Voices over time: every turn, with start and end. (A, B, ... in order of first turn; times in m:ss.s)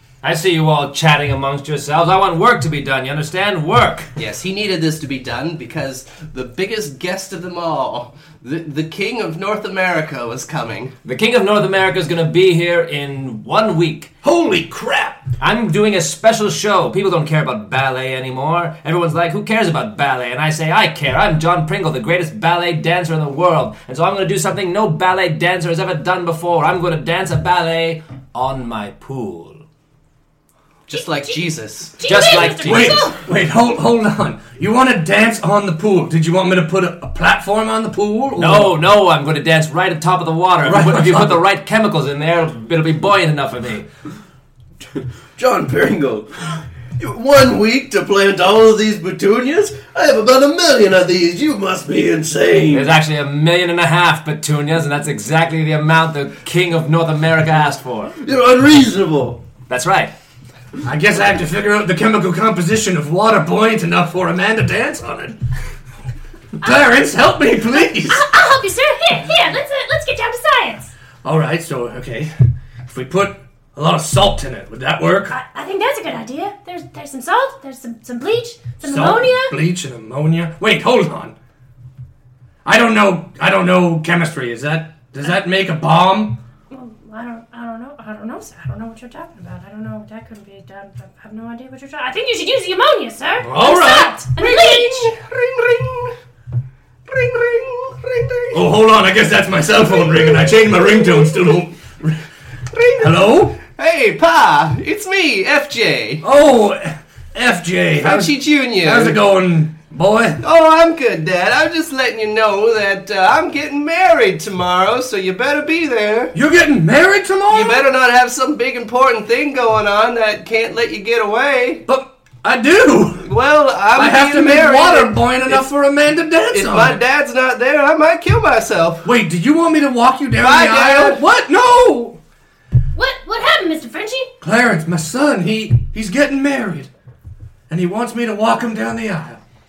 0:00.2-0:04.1 A
0:04.2-0:10.9 B
0:11.0-0:14.1 A
0:14.2-0:15.2 C
0:15.4-0:29.6 A
0:30.9-0:32.0 B
0:30.9-0:31.4 D
0:32.0-0:33.2 D
0:32.0-0:33.1 A
0:32.4-0:38.8 C
0:38.4-0:43.9 A
0:40.6-0:41.4 C
0:45.4-0:53.0 E
0:52.7-0:58.1 A
0:58.2-0:59.4 E
0:59.7-1:00.1 A
1:00.8-1:05.4 C
1:06.6-1:08.3 C
1:08.1-1:10.9 D
1:11.2-1:12.3 C
1:12.9-1:15.3 C
1:15.3-1:19.6 D
1:18.8-1:21.4 C
1:22.6-1:26.4 C
1:26.7-1:35.2 D
1:33.4-1:34.2 C
1:34.4-1:36.2 B
1:37.1-1:38.7 B
1:38.5-1:42.2 C
1:39.9-1:41.6 B
1:42.7-1:46.2 B
1:43.0-1:43.6 C
1:46.2-1:50.4 C
1:48.0-1:49.2 B
1:50.4-1:56.4 B
1:56.3-1:57.8 C
1:57.5-2:01.8 B
2:01.9-2:03.3 C
2:03.2-2:05.7 B
2:04.0-2:07.0 C
2:06.5-2:09.1 B
2:09.0-2:12.2 C
2:10.4-2:11.2 B
2:13.0-2:14.3 D
2:14.4-2:16.9 C
2:17.7-2:19.4 C